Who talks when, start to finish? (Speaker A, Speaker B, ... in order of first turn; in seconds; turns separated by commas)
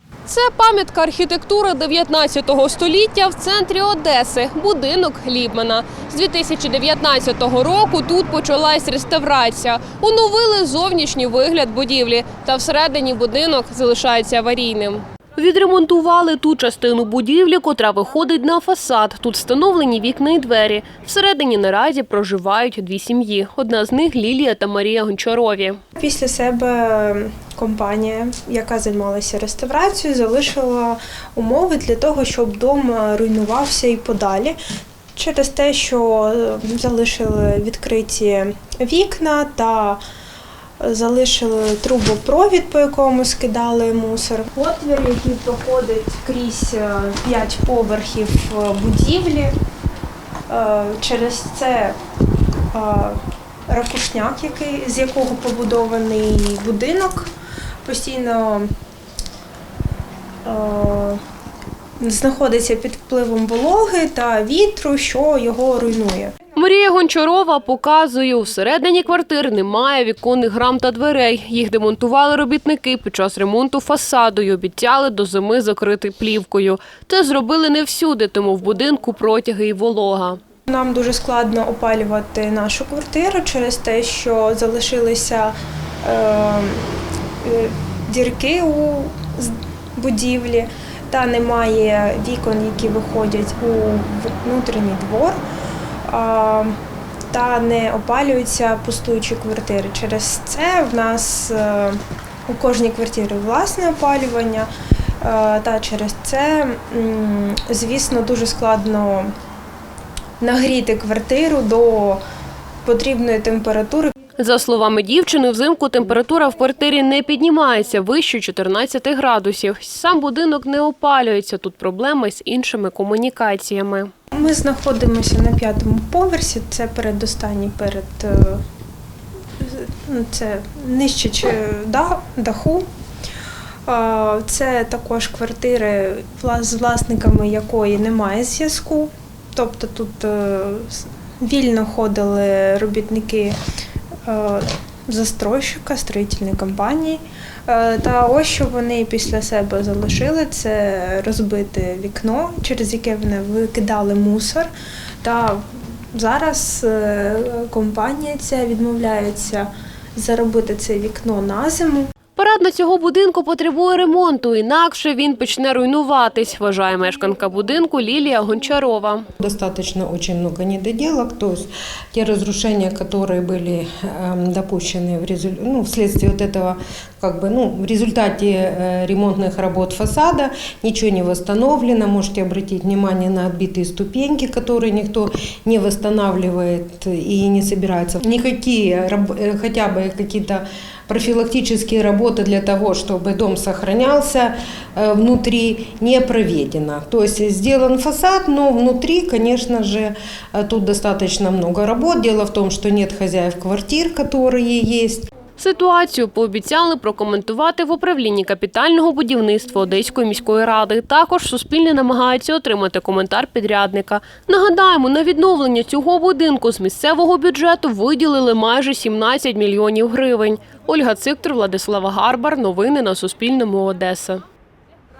Speaker A: 0.3-25.8, Speaker B: 26.0-34.5, Speaker B: 35.1-40.0, Speaker B: 40.8-49.5, Speaker B: 50.5-52.0, Speaker B: 52.7-57.3, Speaker B: 57.8-58.7, Speaker B: 60.4-61.2, Speaker B: 62.0-66.3, Speaker A: 66.6-80.4, Speaker B: 80.7-86.8, Speaker B: 87.4-95.4, Speaker B: 96.0-96.7, Speaker B: 97.3-104.7, Speaker B: 105.2-109.3, Speaker B: 110.4-112.2, Speaker B: 112.8-114.1, Speaker A: 114.4-124.1, Speaker B: 124.3-128.6, Speaker B: 129.6-132.8, Speaker B: 133.9-143.6, Speaker B: 144.2-154.7, Speaker B: 155.2-162.1, Speaker A: 162.4-169.2, Speaker C: 169.4-205.2, Speaker A: 205.6-224.4